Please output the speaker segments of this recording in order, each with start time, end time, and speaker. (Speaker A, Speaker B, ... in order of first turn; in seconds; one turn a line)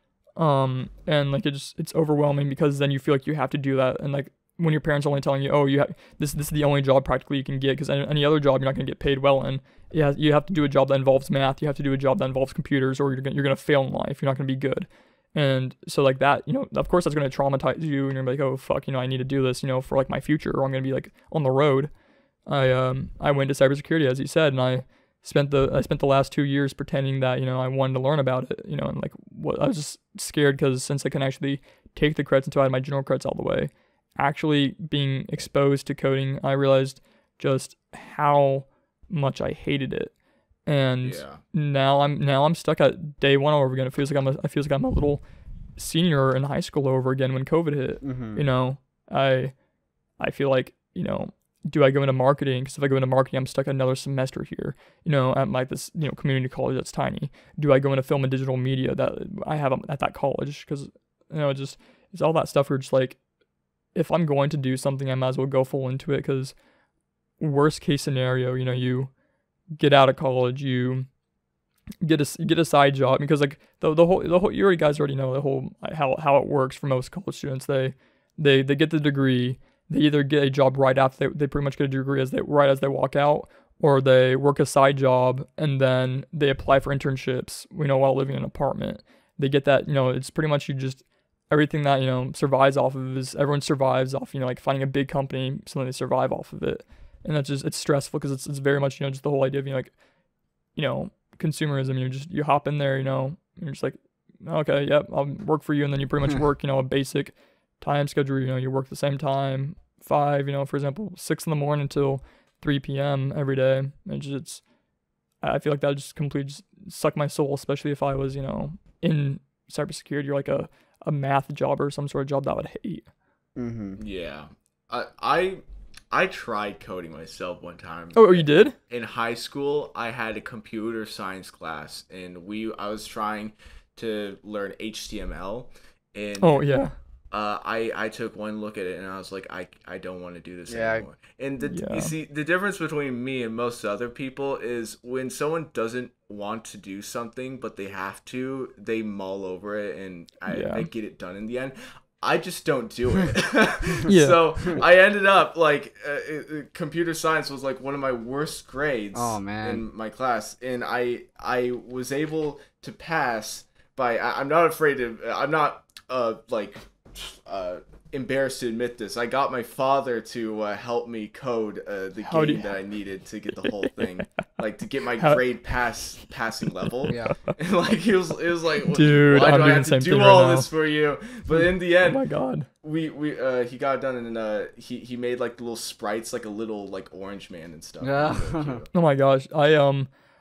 Speaker A: 0.4-21.9
Speaker A: 22.5-40.1
Speaker A: 40.7-45.2
Speaker B: 41.0-41.4
Speaker A: 45.8-49.5
Speaker C: 48.0-48.4
Speaker A: 50.2-63.2
Speaker A: 63.9-66.5
Speaker A: 67.4-69.1
Speaker A: 69.8-71.1
Speaker A: 72.0-99.9
Speaker A: 100.8-114.6
Speaker A: 115.4-123.0
Speaker C: 123.6-124.0
Speaker B: 124.0-136.6
Speaker A: 128.2-128.7
Speaker A: 136.4-136.9
Speaker B: 137.3-182.2
Speaker C: 140.7-141.0
Speaker A: 141.7-142.1
Speaker A: 150.5-150.9
Speaker A: 154.1-154.4
Speaker C: 159.1-159.8
Speaker A: 172.2-172.7
Speaker A: 175.2-175.4
Speaker A: 177.0-177.6
Speaker C: 177.1-177.3
Speaker A: 178.8-180.7
Speaker A: 182.0-182.7
Speaker B: 182.8-188.9
Speaker C: 188.0-188.8
Speaker A: 188.9-190.1